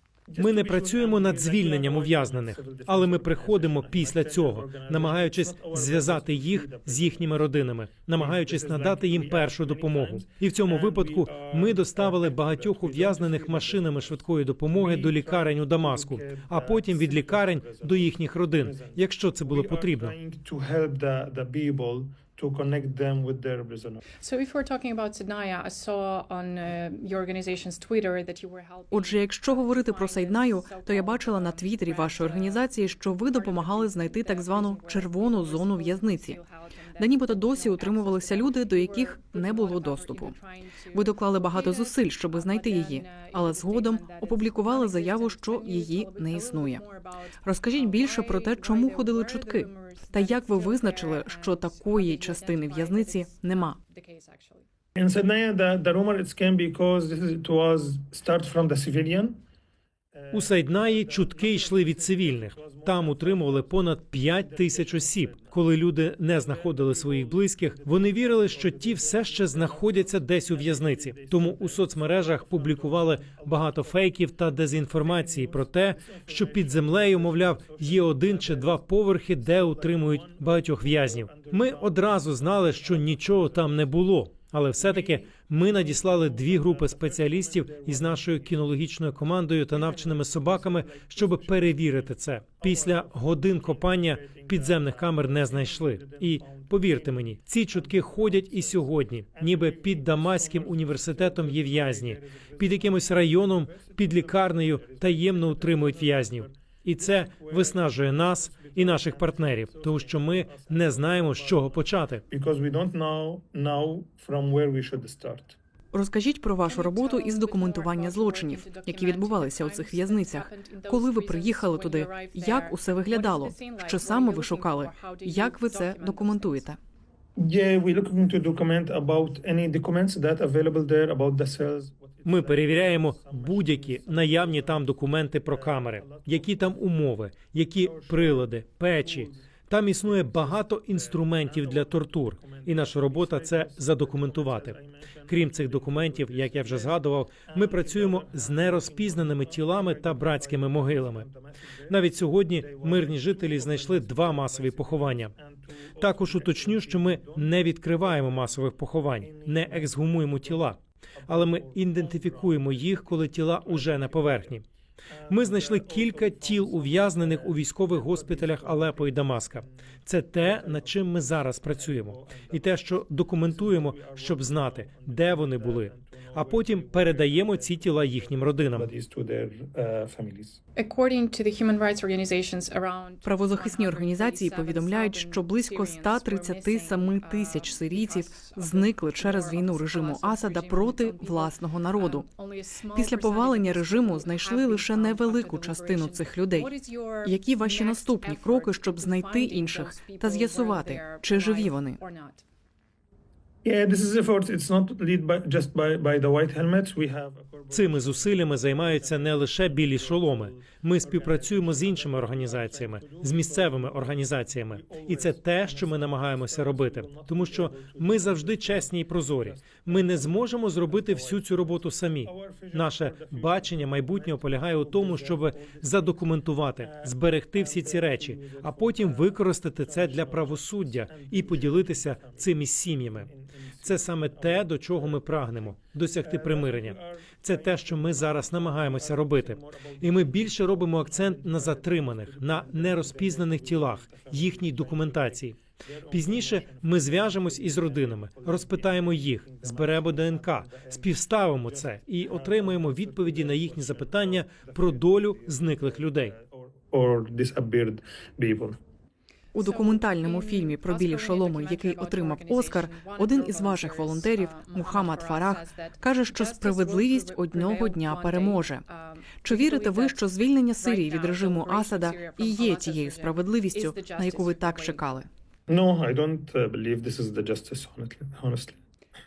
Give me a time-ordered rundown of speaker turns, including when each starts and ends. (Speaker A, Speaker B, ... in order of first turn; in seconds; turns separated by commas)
Speaker A: 0.3-24.0, Speaker B: 0.3-20.1, Speaker C: 24.2-54.6, Speaker D: 28.9-36.4, Speaker D: 37.0-40.3, Speaker D: 40.9-46.8, Speaker D: 47.4-53.8, Speaker A: 55.0-59.4, Speaker A: 60.1-65.6, Speaker B: 60.3-112.2, Speaker A: 66.3-74.0, Speaker A: 75.0-84.0, Speaker A: 84.7-88.8, Speaker A: 89.7-115.6, Speaker D: 115.9-126.8, Speaker C: 116.6-126.7, Speaker A: 127.4-134.9, Speaker B: 132.2-151.2, Speaker A: 135.4-136.7, Speaker A: 137.8-158.5, Speaker B: 151.9-155.3, Speaker B: 156.0-164.6, Speaker A: 159.2-164.6, Speaker A: 165.1-169.7, Speaker B: 165.3-178.9, Speaker A: 170.3-180.6, Speaker C: 180.8-202.4, Speaker D: 183.2-192.2, Speaker D: 192.9-196.7, Speaker D: 197.2-202.0, Speaker A: 203.6-258.8, Speaker B: 207.7-233.3, Speaker B: 233.8-256.4, Speaker C: 259.5-275.1, Speaker D: 259.5-268.8, Speaker D: 269.4-275.3, Speaker A: 275.7-278.8